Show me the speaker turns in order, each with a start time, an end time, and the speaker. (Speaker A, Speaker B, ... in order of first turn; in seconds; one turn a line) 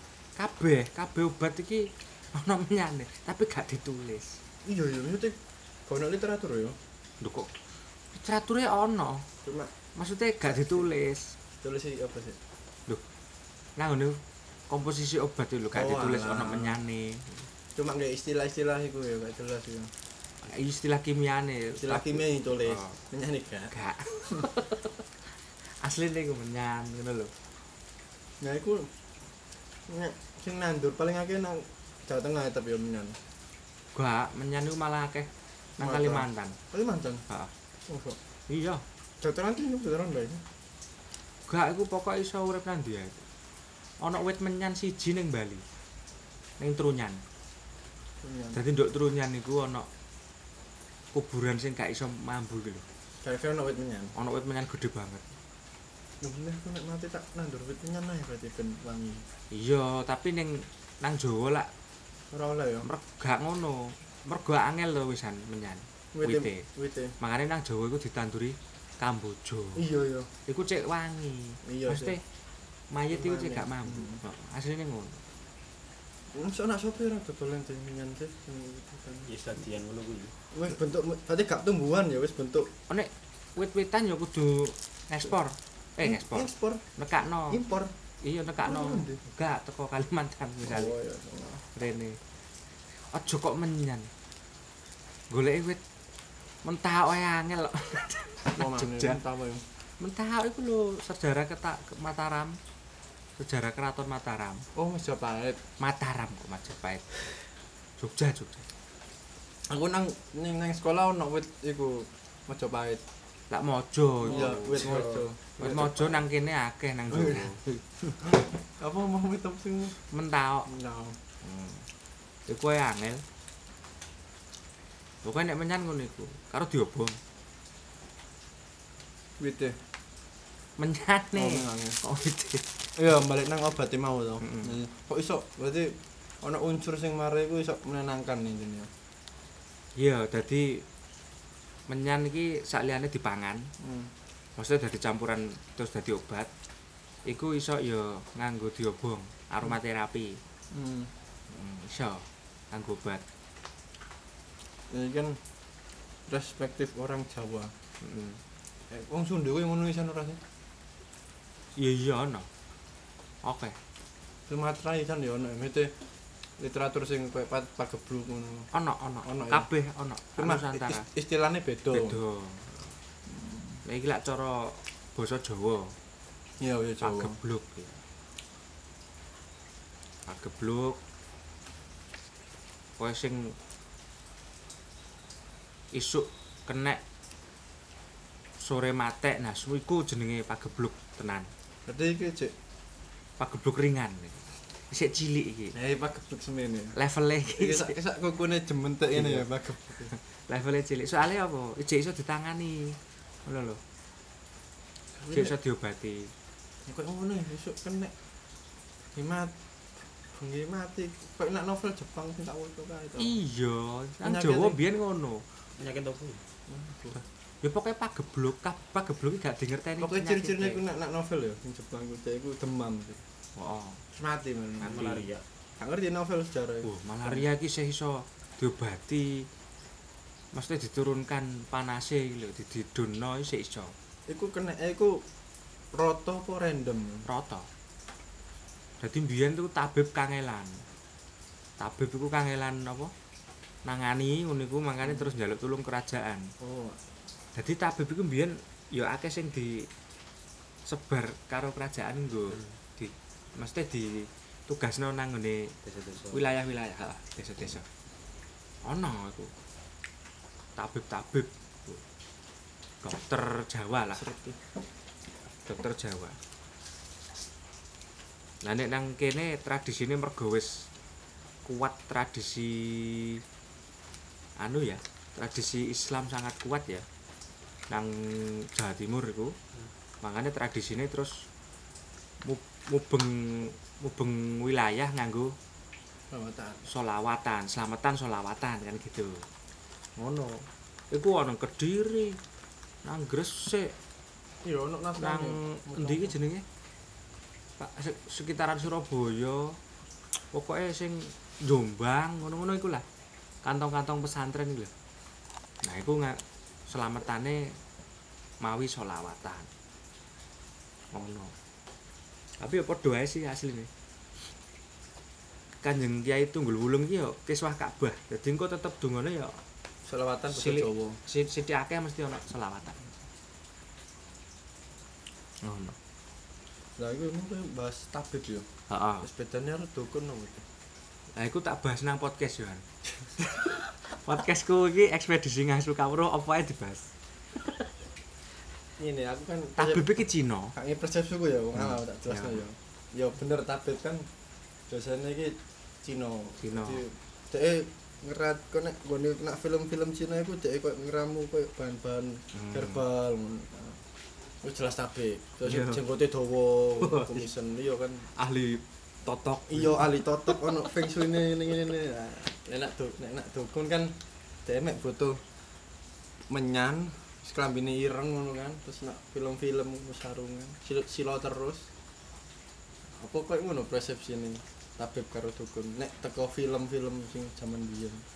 Speaker A: 0.3-4.4
Speaker B: 4.7-6.8
Speaker A: 7.2-7.6
Speaker A: 8.1-9.2
Speaker B: 9.4-9.7
Speaker A: 9.9-11.3
Speaker B: 10.4-10.9
Speaker B: 11.6-12.4
Speaker A: 13.8-17.5
Speaker B: 15.7-16.8
Speaker B: 17.8-19.9
Speaker A: 20.4-23.0
Speaker B: 21.8-23.7
Speaker A: 23.7-25.0
Speaker A: 25.8-27.3
Speaker B: 28.4-28.9
Speaker B: 29.9-33.2
Speaker A: 33.9-36.6
Speaker B: 35.8-37.2
Speaker B: 37.9-38.2
Speaker A: 38.5-38.8
Speaker B: 39.2-40.4
Speaker A: 41.5-43.2
Speaker A: 44.0-45.6
Speaker A: 46.6-47.2
Speaker B: 48.2-48.6
Speaker A: 48.5-49.9
Speaker A: 51.1-52.8
Speaker B: 53.2-54.1
Speaker A: 54.1-55.3
Speaker B: 56.2-59.2
Speaker A: 59.5-61.7
Speaker B: 62.3-62.9
Speaker A: 62.8-66.6
Speaker B: 66.1-67.2
Speaker A: 67.2-69.8
Speaker B: 69.8-70.3
Speaker A: 70.5-72.2
Speaker B: 71.6-72.2
Speaker A: 72.9-75.2
Speaker B: 73.1-74.2
Speaker B: 76.3-79.3
Speaker C: 79.3-80.3
Speaker B: 80.5-82.7
Speaker A: 82.9-87.6
Speaker B: 86.0-86.8
Speaker B: 87.4-87.9
Speaker A: 88.2-90.9
Speaker B: 88.6-89.2
Speaker B: 90.6-91.6
Speaker A: 91.7-92.2
Speaker A: 93.1-94.1
Speaker A: 95.3-95.8
Speaker A: 96.6-99.2
Speaker B: 98.5-99.6
Speaker A: 100.0-102.6
Speaker A: 103.4-104.6
Speaker B: 104.7-105.6
Speaker A: 105.8-107.1
Speaker A: 108.0-108.7
Speaker B: 109.7-113.0
Speaker A: 113.5-117.8
Speaker B: 114.2-116.2
Speaker B: 117.1-117.5
Speaker B: 118.1-120.0
Speaker A: 120.1-120.7
Speaker B: 120.7-121.2
Speaker A: 121.4-121.9
Speaker A: 122.5-123.2
Speaker A: 125.2-127.2
Speaker B: 129.4-129.8
Speaker A: 130.8-132.7
Speaker B: 131.3-132.0
Speaker B: 133.0-138.9
Speaker A: 134.4-134.7
Speaker A: 140.0-140.8
Speaker A: 141.9-143.7
Speaker B: 143.8-144.1
Speaker A: 144.6-146.5
Speaker A: 147.2-150.4
Speaker B: 150.7-151.1
Speaker A: 151.5-153.2
Speaker B: 154.9-155.4
Speaker B: 156.3-157.7
Speaker A: 158.0-158.4
Speaker B: 158.9-160.4
Speaker A: 161.8-162.5
Speaker A: 163.4-163.8
Speaker B: 164.5-165.9
Speaker B: 166.6-168.7
Speaker A: 168.7-171.1
Speaker B: 169.2-169.7
Speaker B: 170.4-172.2
Speaker A: 171.9-172.8
Speaker B: 173.3-173.8
Speaker A: 173.8-175.9
Speaker B: 176.6-177.3
Speaker A: 177.0-178.0
Speaker A: 180.3-181.0
Speaker A: 183.0-183.5
Speaker A: 185.9-187.0
Speaker A: 188.6-191.5
Speaker B: 191.9-192.5
Speaker A: 193.4-195.7
Speaker B: 195.7-197.0
Speaker A: 196.9-197.9
Speaker B: 197.6-200.1
Speaker A: 199.1-199.5
Speaker A: 200.1-203.8
Speaker B: 205.2-205.5
Speaker A: 205.3-206.3
Speaker B: 206.8-208.1
Speaker B: 209.1-209.5
Speaker B: 210.3-213.4
Speaker A: 213.2-215.4
Speaker B: 214.2-214.8
Speaker C: 215.8-216.4
Speaker B: 216.7-217.2
Speaker A: 217.6-220.8
Speaker B: 220.0-223.2
Speaker A: 223.6-224.0
Speaker B: 224.1-225.2
Speaker C: 224.8-225.4
Speaker B: 225.8-226.9
Speaker A: 226.8-229.5
Speaker A: 230.5-233.9
Speaker B: 234.3-235.2
Speaker B: 235.9-237.3
Speaker A: 237.3-237.7
Speaker A: 239.0-240.8
Speaker A: 241.8-243.1
Speaker A: 243.8-246.5
Speaker B: 245.0-245.3
Speaker B: 246.6-247.0
Speaker A: 247.5-249.9
Speaker A: 250.9-255.7
Speaker C: 255.8-256.5
Speaker A: 256.3-257.9
Speaker A: 258.8-259.5
Speaker A: 260.8-262.0
Speaker A: 263.0-264.2
Speaker B: 264.1-264.6
Speaker A: 265.6-266.4
Speaker A: 268.6-270.9
Speaker A: 271.6-273.4
Speaker A: 274.6-277.0
Speaker A: 277.9-279.6
Speaker A: 280.2-281.4
Speaker A: 282.4-285.5
Speaker B: 286.3-286.8
Speaker A: 286.9-289.4
Speaker A: 290.1-292.4
Speaker A: 293.0-293.9
Speaker B: 294.6-296.3
Speaker A: 295.2-296.6
Speaker A: 297.8-299.8
Speaker A: 300.5-303.0
Speaker A: 303.6-304.9
Speaker A: 305.8-307.7
Speaker A: 308.6-309.7
Speaker A: 311.1-311.5
Speaker A: 312.6-313.9
Speaker A: 315.8-319.6
Speaker B: 320.1-321.2
Speaker A: 320.5-323.0
Speaker A: 325.6-325.9
Speaker B: 327.0-328.7
Speaker A: 328.9-329.3
Speaker B: 329.2-330.6
Speaker A: 331.4-332.8
Speaker A: 333.4-337.1
Speaker B: 339.0-340.1
Speaker A: 339.8-340.7
Speaker B: 340.7-344.3
Speaker A: 341.8-342.6
Speaker B: 344.9-354.0
Speaker A: 346.6-347.0
Speaker A: 352.5-353.0
Speaker B: 354.6-358.3
Speaker A: 355.6-356.0
Speaker A: 357.0-357.5
Speaker A: 358.4-360.1
Speaker B: 359.7-364.1
Speaker B: 364.6-365.4
Speaker B: 366.5-371.9
Speaker B: 373.1-378.2